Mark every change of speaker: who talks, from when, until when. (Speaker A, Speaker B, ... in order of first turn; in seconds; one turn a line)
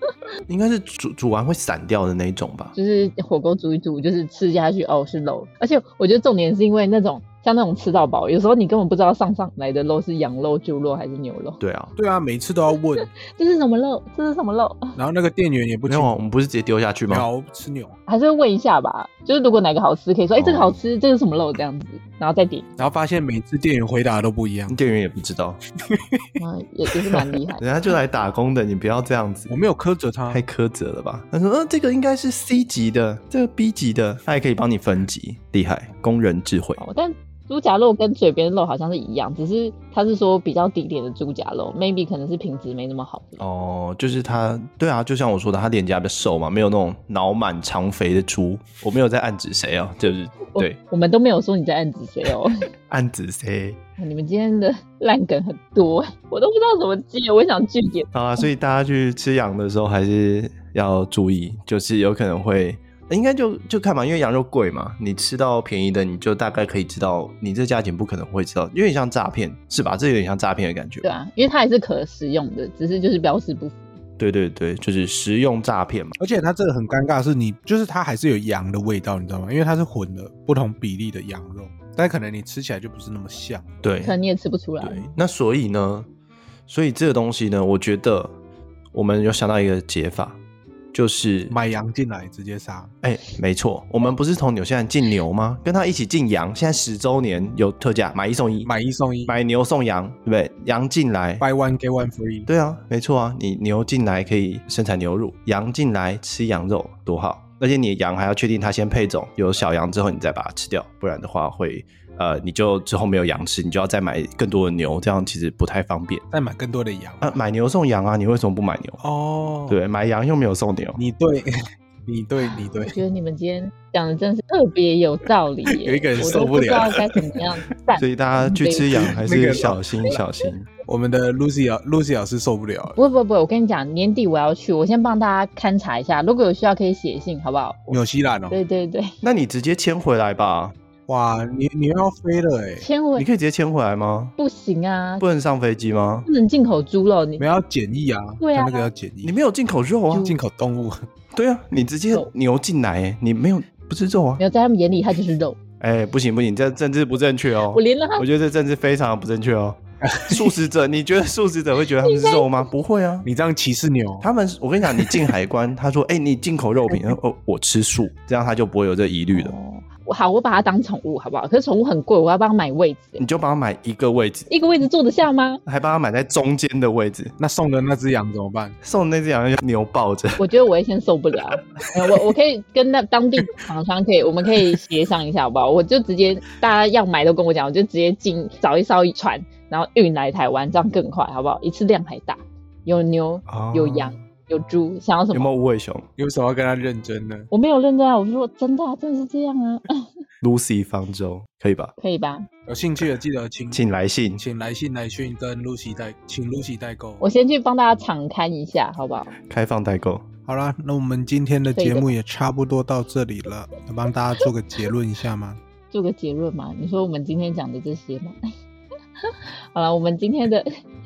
Speaker A: 0.5-2.8
Speaker B: 2.8-11.6
Speaker A: 11.6-11.9
Speaker C: 12.0-13.1
Speaker B: 13.0-15.0
Speaker C: 15.0-16.1
Speaker A: 15.9-17.3
Speaker C: 17.1-17.9
Speaker B: 18.1-22.7
Speaker A: 20.4-20.8
Speaker C: 22.8-24.8
Speaker A: 24.7-25.6
Speaker C: 25.9-26.4
Speaker B: 26.4-27.6
Speaker C: 26.9-27.4
Speaker A: 27.6-29.6
Speaker C: 29.5-30.4
Speaker A: 30.3-36.8
Speaker B: 36.8-43.4
Speaker A: 43.4-50.8
Speaker B: 50.5-52.7
Speaker A: 52.9-53.8
Speaker B: 54.0-58.5
Speaker A: 58.1-71.1
Speaker B: 71.0-73.8
Speaker A: 74.2-76.2
Speaker C: 76.2-83.8
Speaker A: 83.8-84.2
Speaker B: 84.0-85.1
Speaker A: 84.8-86.1
Speaker A: 86.7-88.3
Speaker A: 88.9-90.4
Speaker A: 90.9-91.6
Speaker C: 91.5-92.9
Speaker A: 93.0-98.7
Speaker C: 98.6-99.4
Speaker A: 99.3-101.4
Speaker C: 101.4-102.5
Speaker A: 102.5-116.2
Speaker C: 116.3-117.4
Speaker A: 117.2-119.0
Speaker C: 119.0-119.8
Speaker A: 119.7-121.0
Speaker C: 121.0-123.0
Speaker B: 122.5-129.2
Speaker C: 125.7-127.4
Speaker A: 128.0-130.7
Speaker C: 129.0-130.2
Speaker C: 130.8-133.0
Speaker B: 132.9-138.0
Speaker C: 137.9-138.6
Speaker B: 138.5-139.1
Speaker A: 139.2-140.8
Speaker C: 141.1-142.9
Speaker B: 142.8-143.3
Speaker A: 143.2-144.3
Speaker B: 144.4-145.2
Speaker A: 145.2-146.3
Speaker B: 146.3-147.5
Speaker C: 147.4-149.4
Speaker B: 148.4-148.9
Speaker A: 149.2-150.3
Speaker C: 150.1-151.1
Speaker A: 151.3-154.4
Speaker B: 154.4-155.6
Speaker A: 155.8-163.3
Speaker B: 157.7-158.3
Speaker C: 160.0-160.5
Speaker B: 162.0-162.7
Speaker C: 163.2-164.3
Speaker A: 164.2-169.6
Speaker C: 164.8-165.3
Speaker B: 169.3-173.2
Speaker A: 173.2-174.5
Speaker B: 174.5-175.6
Speaker A: 175.7-177.3
Speaker C: 177.4-178.8
Speaker A: 178.8-180.4
Speaker B: 180.4-195.5
Speaker A: 193.5-194.2
Speaker A: 195.3-196.1
Speaker C: 196.2-197.5
Speaker B: 197.5-200.1
Speaker A: 200.4-201.9
Speaker B: 202.0-202.5
Speaker C: 202.7-203.8
Speaker A: 203.7-204.4
Speaker C: 204.4-207.2
Speaker B: 207.2-209.3
Speaker A: 209.4-210.2
Speaker C: 210.5-215.6
Speaker B: 211.8-212.1
Speaker B: 215.9-218.4
Speaker B: 219.2-220.7